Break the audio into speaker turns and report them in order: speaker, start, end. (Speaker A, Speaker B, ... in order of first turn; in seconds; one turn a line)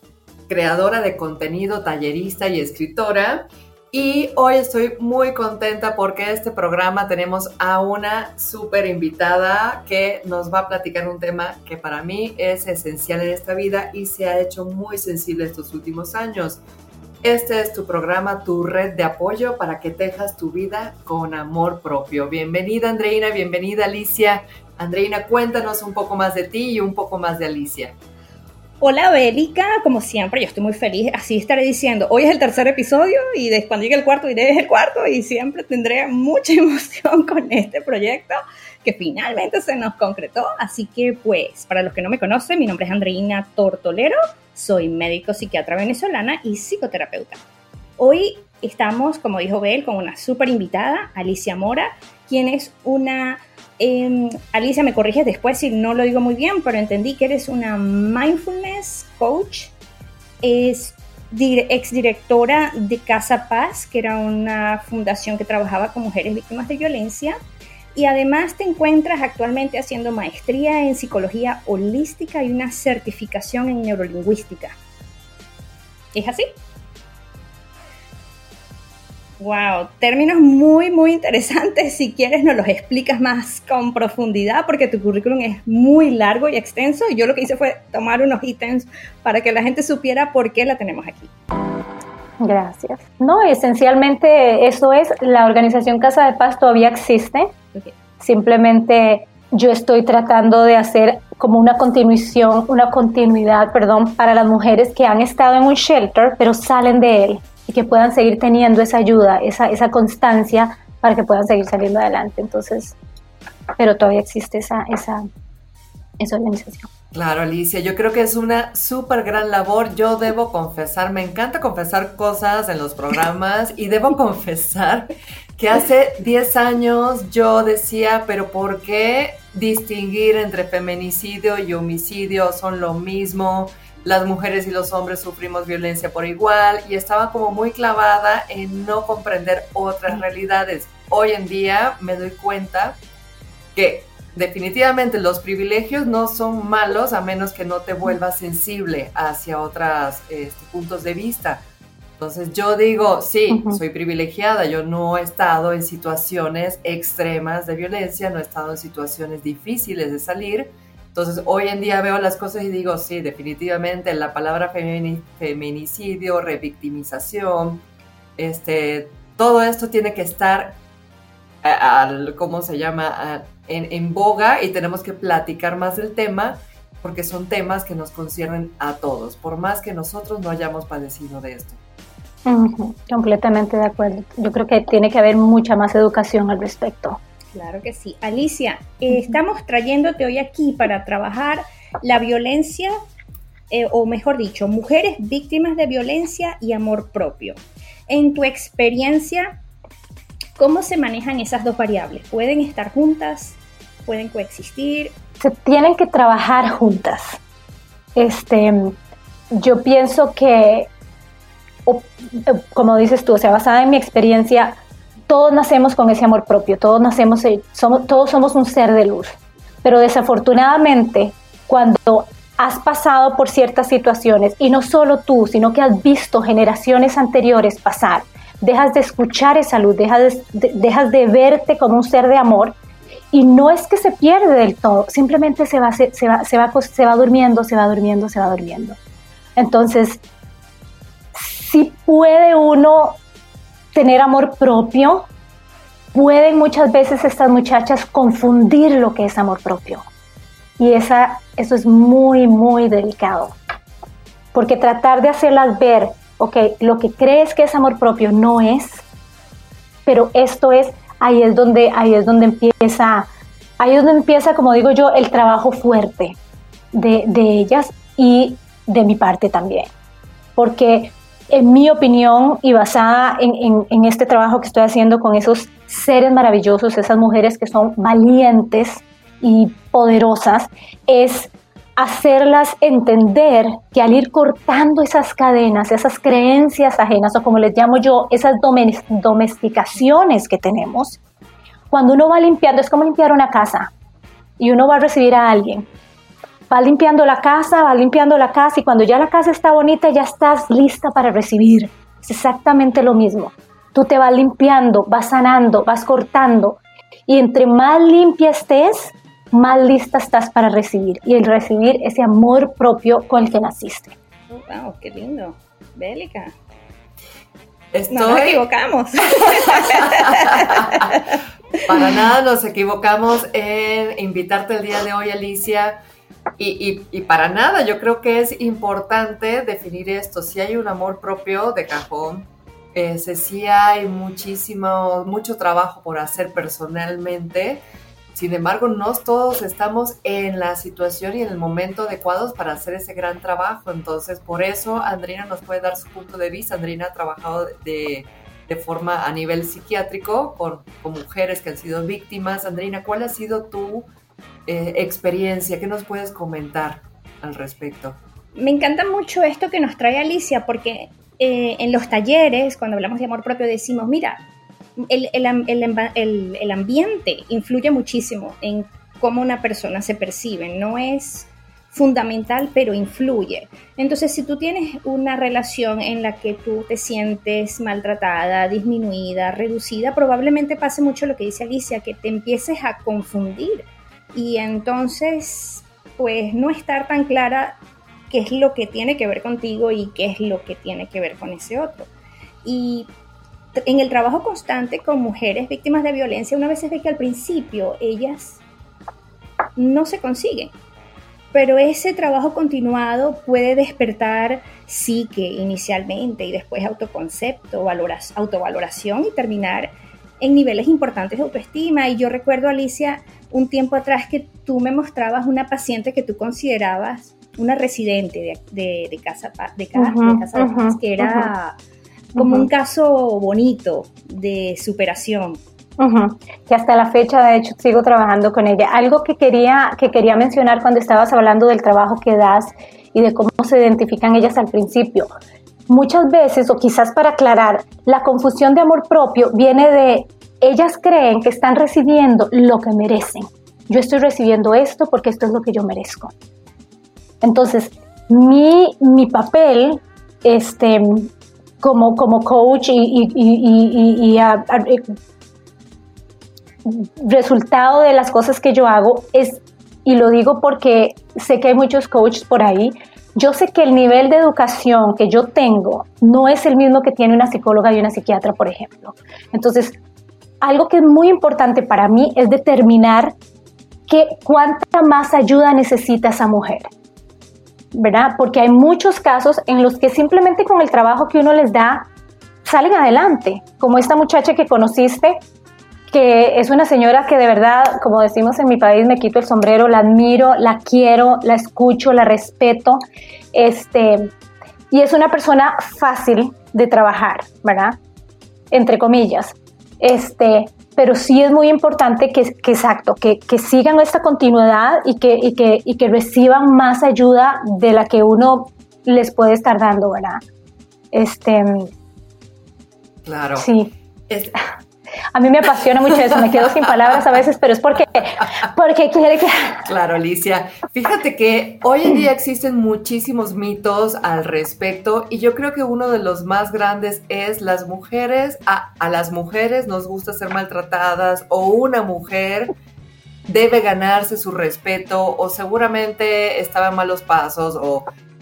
Speaker A: 0.5-16.6
Speaker A: 17.2-28.0
Speaker B: 28.8-47.4
Speaker B: 48.0-59.7
Speaker B: 60.4-67.4
Speaker B: 67.9-74.8
Speaker B: 76.1-76.5
Speaker B: 79.4-91.3
Speaker C: 92.4-97.5
Speaker C: 98.2-113.0
Speaker C: 113.8-115.2
Speaker C: 116.2-116.9
Speaker A: 117.1-143.0
Speaker A: 143.7-151.6
Speaker A: 152.2-167.8
Speaker C: 153.5-153.8
Speaker A: 168.4-170.8
Speaker A: 171.6-181.8
Speaker C: 182.4-187.2
Speaker B: 187.5-192.9
Speaker B: 193.7-199.6
Speaker B: 200.6-205.1
Speaker C: 205.4-207.4
Speaker C: 208.2-208.9
Speaker C: 209.5-210.9
Speaker C: 211.8-214.8
Speaker C: 215.3-232.8
Speaker C: 233.3-239.0
Speaker C: 239.6-240.2
Speaker C: 241.3-243.2
Speaker C: 243.9-245.3
Speaker C: 246.1-250.0
Speaker C: 250.8-253.6
Speaker C: 254.5-259.0
Speaker C: 260.1-263.3
Speaker C: 263.8-266.4
Speaker C: 266.9-269.9
Speaker C: 270.6-291.2
Speaker C: 291.9-293.9
Speaker C: 294.6-295.9
Speaker C: 296.7-314.1
Speaker B: 314.5-316.6
Speaker A: 317.9-318.6
Speaker B: 318.1-321.4
Speaker A: 319.4-321.2
Speaker A: 321.9-326.0
Speaker A: 326.6-337.8
Speaker A: 338.3-354.1
Speaker A: 354.6-358.2
Speaker B: 358.5-364.4
Speaker B: 365.0-387.8
Speaker B: 388.3-392.1
Speaker B: 392.6-393.1
Speaker B: 393.8-398.6
Speaker B: 399.8-400.7
Speaker B: 401.5-421.8
Speaker C: 419.9-421.5
Speaker B: 422.3-425.6
Speaker C: 422.4-422.7
Speaker C: 426.0-435.3
Speaker C: 435.9-446.3
Speaker C: 447.4-451.3
Speaker C: 451.8-455.1
Speaker C: 456.8-470.0
Speaker C: 470.6-473.3
Speaker C: 474.1-476.9
Speaker C: 477.9-482.1
Speaker C: 482.6-485.4
Speaker C: 486.1-493.0
Speaker C: 493.5-494.3
Speaker C: 494.9-498.0
Speaker C: 498.7-510.4
Speaker C: 511.1-511.9
Speaker A: 513.2-513.7
Speaker C: 513.6-513.9
Speaker A: 514.3-514.5
Speaker C: 515.3-519.9
Speaker A: 516.7-517.2
Speaker A: 518.4-518.6
Speaker A: 519.8-532.7
Speaker A: 533.5-538.0